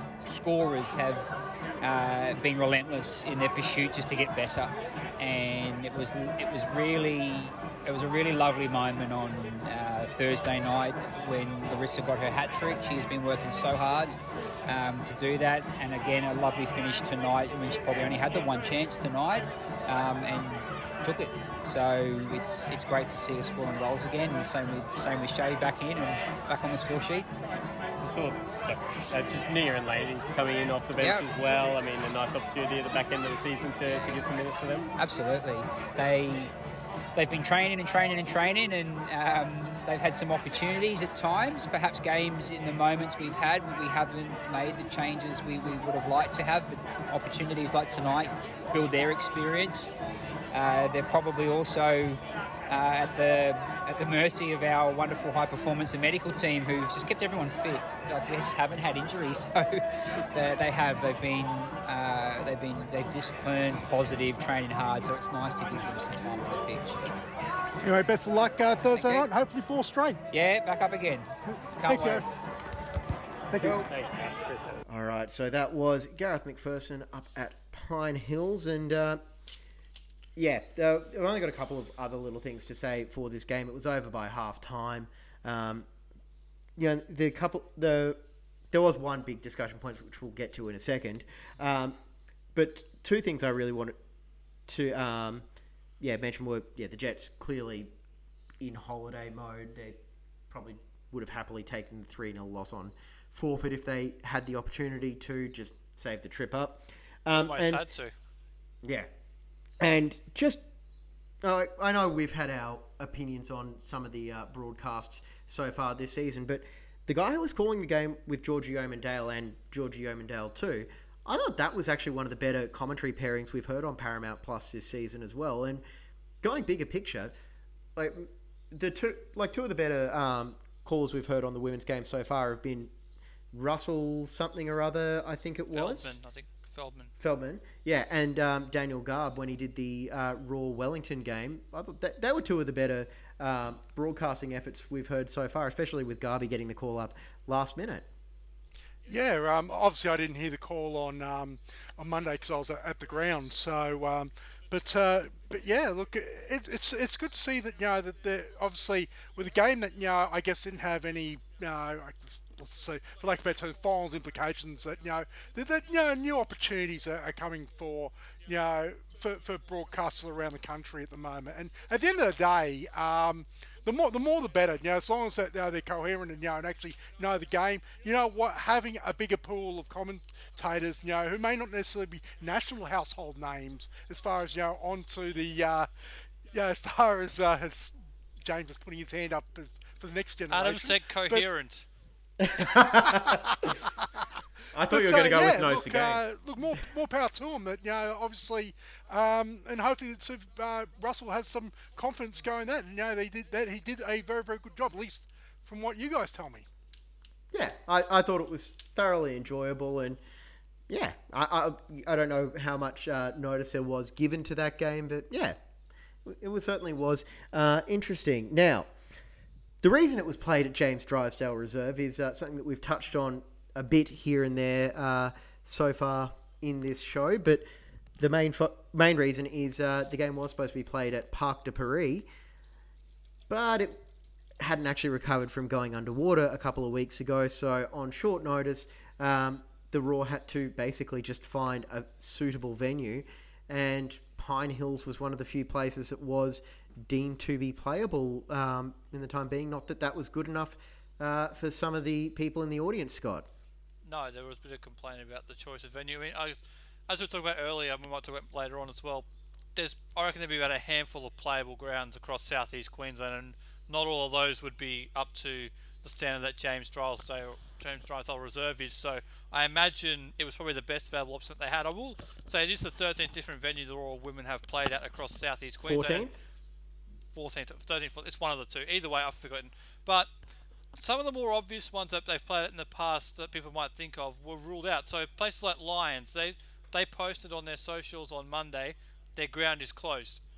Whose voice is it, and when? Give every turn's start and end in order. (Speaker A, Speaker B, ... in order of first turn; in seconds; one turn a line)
Speaker A: 0.2-27.3
Speaker B: 28.0-34.9
Speaker A: 31.0-31.2
Speaker A: 35.0-36.5
Speaker A: 37.1-49.9
Speaker A: 50.5-67.1
Speaker C: 67.8-70.2
Speaker A: 68.9-69.2
Speaker A: 70.3-72.3
Speaker C: 71.8-72.2
Speaker B: 73.6-74.7
Speaker D: 74.8-79.2
Speaker D: 80.3-85.9
Speaker D: 86.8-92.0
Speaker D: 92.5-94.0
Speaker D: 94.7-95.5
Speaker D: 96.0-97.9
Speaker D: 98.6-100.0
Speaker D: 100.5-107.8
Speaker E: 107.3-108.1
Speaker D: 108.8-109.1
Speaker D: 109.8-110.6
Speaker D: 111.4-125.8
Speaker D: 126.4-127.3
Speaker D: 128.0-132.9
Speaker D: 133.5-136.2
Speaker E: 135.7-137.1
Speaker D: 137.2-148.1
Speaker C: 149.1-185.9
Speaker C: 186.5-191.4
Speaker E: 190.5-191.9
Speaker D: 192.4-193.7
Speaker C: 192.9-193.8
Speaker D: 194.7-196.2
Speaker C: 194.9-206.7
Speaker D: 207.5-210.2
Speaker D: 210.9-215.6
Speaker D: 216.2-218.9
Speaker D: 219.8-227.7
Speaker D: 228.2-232.3
Speaker D: 233.5-234.0
Speaker D: 234.6-253.5
Speaker E: 254.0-276.3
Speaker D: 275.8-276.4
Speaker E: 277.3-280.3
Speaker E: 280.9-290.4